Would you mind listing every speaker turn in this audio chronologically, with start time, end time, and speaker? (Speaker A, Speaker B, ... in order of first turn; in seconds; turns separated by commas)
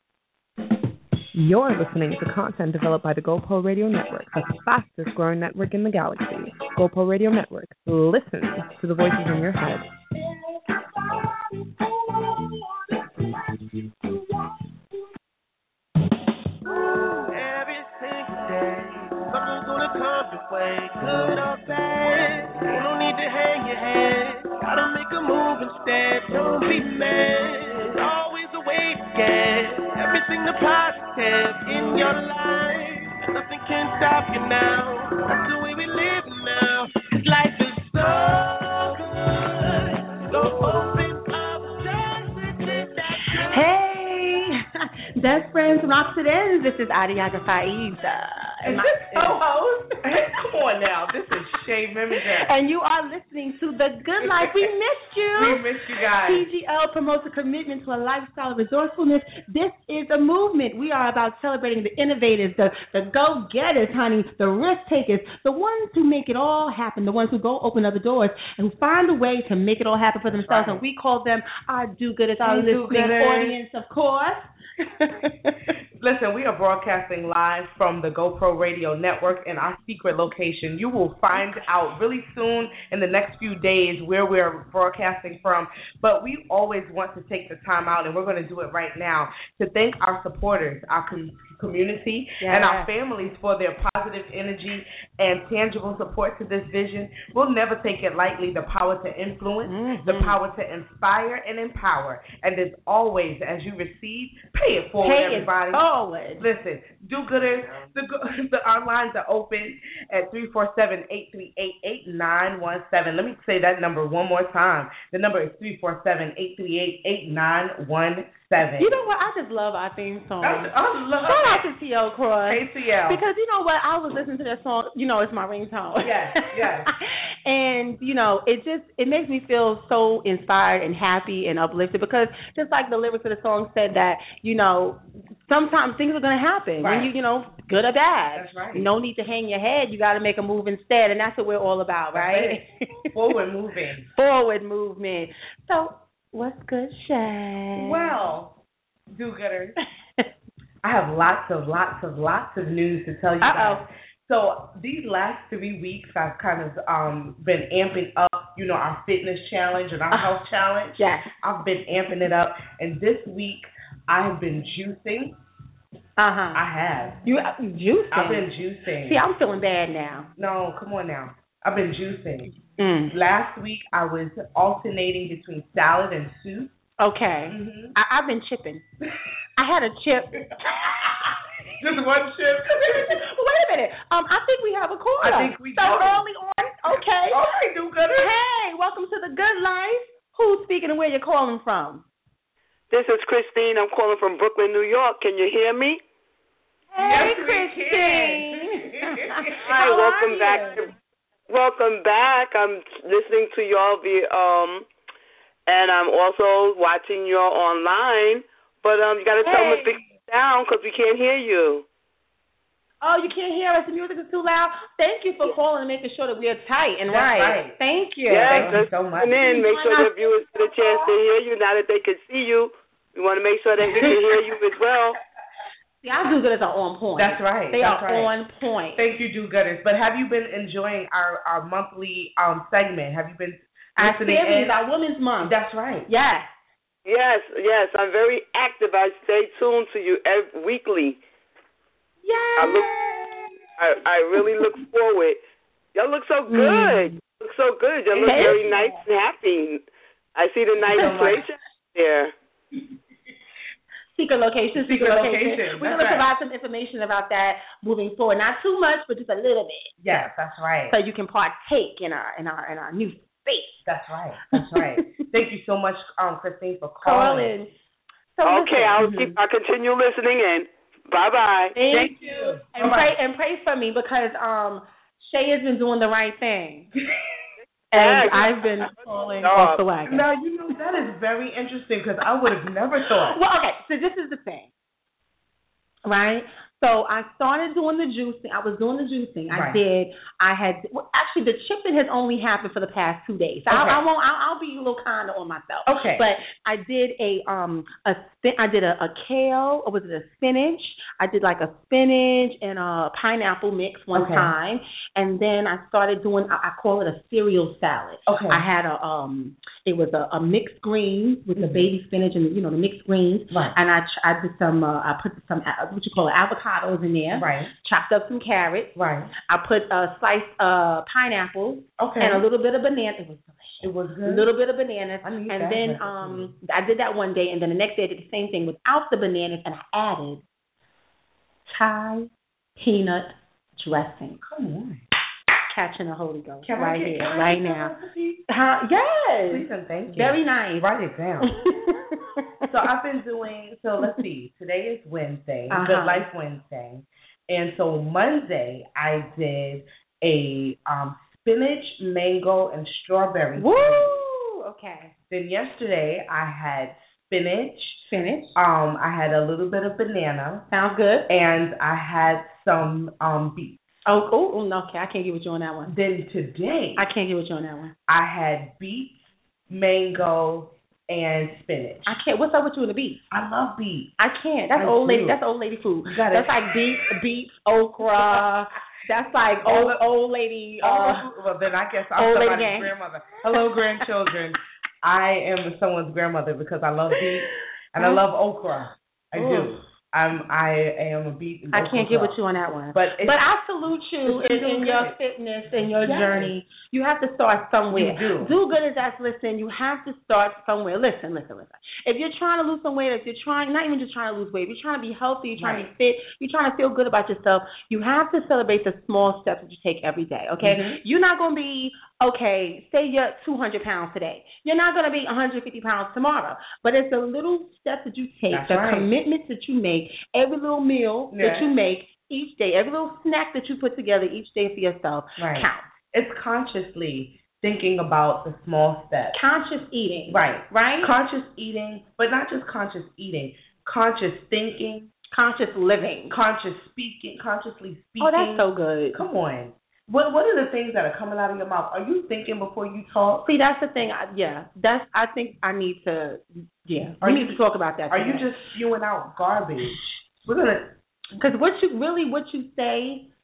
Speaker A: 1.4-9.9, Speaker B: 16.7-43.7, Speaker C: 43.5-50.0, Speaker D: 48.6-49.4, Speaker D: 50.0-52.5, Speaker C: 52.2-55.6, Speaker D: 55.4-56.5, Speaker C: 56.2-75.6, Speaker D: 70.3-70.8, Speaker D: 72.4-73.6, Speaker D: 76.0-105.8, Speaker C: 81.3-81.6, Speaker C: 92.4-92.9, Speaker C: 99.7-100.4, Speaker C: 105.0-106.5, Speaker D: 106.4-119.0, Speaker C: 118.8-120.7, Speaker D: 120.4-121.7, Speaker C: 121.2-142.7, Speaker D: 122.5-123.2, Speaker D: 126.0-126.9, Speaker D: 136.8-137.1, Speaker D: 138.3-138.9, Speaker D: 142.1-144.1, Speaker C: 144.1-148.2, Speaker D: 147.8-148.6, Speaker D: 149.1-149.8, Speaker D: 150.8-165.4, Speaker C: 153.4-153.8, Speaker C: 161.0-161.3, Speaker C: 166.2-166.6, Speaker D: 166.5-167.2, Speaker C: 167.2-168.5, Speaker D: 168.1-169.2, Speaker C: 169.0-170.3, Speaker D: 170.4-172.5, Speaker C: 172.8-173.1, Speaker D: 173.1-176.7, Speaker C: 177.0-178.8, Speaker D: 177.5-178.0, Speaker C: 179.6-180.4, Speaker D: 180.6-181.2, Speaker D: 181.8-183.2, Speaker C: 182.7-187.5, Speaker D: 185.2-186.3, Speaker D: 186.9-188.4, Speaker C: 188.0-192.0, Speaker E: 192.9-196.0, Speaker C: 196.9-200.8, Speaker D: 197.0-199.6, Speaker E: 199.7-200.9, Speaker E: 201.5-204.9, Speaker E: 205.7-211.8, Speaker C: 209.4-210.0, Speaker C: 213.0-218.8, Speaker D: 217.1-217.8, Speaker E: 218.3-225.2, Speaker D: 218.5-219.3, Speaker C: 219.3-221.1, Speaker C: 226.0-229.0, Speaker D: 227.2-228.3, Speaker D: 229.0-234.8, Speaker C: 234.0-235.6, Speaker D: 235.4-236.1, Speaker C: 236.1-236.6, Speaker E: 237.1-241.2, Speaker C: 242.2-243.5, Speaker E: 242.6-242.9, Speaker E: 243.8-245.4, Speaker E: 245.9-252.3, Speaker C: 246.5-247.2, Speaker D: 248.1-248.7, Speaker C: 248.2-249.0, Speaker D: 250.8-251.4, Speaker C: 254.2-260.3, Speaker D: 254.8-256.3, Speaker D: 260.0-261.0, Speaker C: 260.9-263.8, Speaker D: 263.9-267.5, Speaker C: 264.5-265.3, Speaker C: 267.0-267.7, Speaker C: 268.4-269.4, Speaker E: 268.4-271.7, Speaker C: 271.8-276.9, Speaker D: 271.9-273.1, Speaker C: 277.9-280.2, Speaker E: 277.9-279.8, Speaker D: 280.1-283.4, Speaker C: 283.3-284.7, Speaker C: 286.1-318.9, Speaker D: 289.5-289.8, Speaker D: 293.7-294.0, Speaker D: 295.9-296.2, Speaker D: 304.1-304.5, Speaker D: 308.3-308.6, Speaker D: 311.6-311.9, Speaker D: 313.5-313.8, Speaker D: 317.3-317.7, Speaker D: 318.9-319.3, Speaker C: 319.5-330.4, Speaker D: 322.0-322.4, Speaker D: 323.8-324.5, Speaker D: 325.2-326.6, Speaker C: 331.7-334.4, Speaker D: 334.4-335.1, Speaker C: 335.7-337.9, Speaker D: 336.6-338.5, Speaker C: 338.5-340.9, Speaker D: 339.5-341.6, Speaker C: 341.4-342.6, Speaker D: 342.7-354.1, Speaker C: 345.7-346.3, Speaker C: 353.6-355.1, Speaker D: 355.3-360.7, Speaker C: 358.1-358.6, Speaker C: 360.7-361.3, Speaker D: 361.3-363.8, Speaker C: 364.1-366.0, Speaker D: 365.9-367.1, Speaker C: 367.0-367.9, Speaker D: 368.1-372.2, Speaker C: 372.1-373.2, Speaker D: 373.3-374.2, Speaker C: 374.2-381.2, Speaker D: 374.8-375.4, Speaker D: 376.1-377.0, Speaker D: 378.1-378.4, Speaker D: 379.6-380.1, Speaker D: 380.8-392.4, Speaker C: 382.2-382.9, Speaker C: 387.1-388.2, Speaker C: 389.4-389.8, Speaker C: 391.7-425.9, Speaker D: 392.9-393.4, Speaker D: 394.3-395.2, Speaker D: 396.0-396.6, Speaker D: 397.9-398.6, Speaker D: 405.6-405.9, Speaker D: 410.6-411.0, Speaker D: 418.5-419.1, Speaker D: 421.3-421.7, Speaker D: 425.4-429.4, Speaker C: 429.3-431.1, Speaker D: 430.3-435.1, Speaker C: 435.3-436.4, Speaker D: 436.3-443.5, Speaker C: 438.2-439.2, Speaker C: 443.4-448.5, Speaker D: 447.2-447.6, Speaker D: 448.1-450.9, Speaker C: 451.4-453.3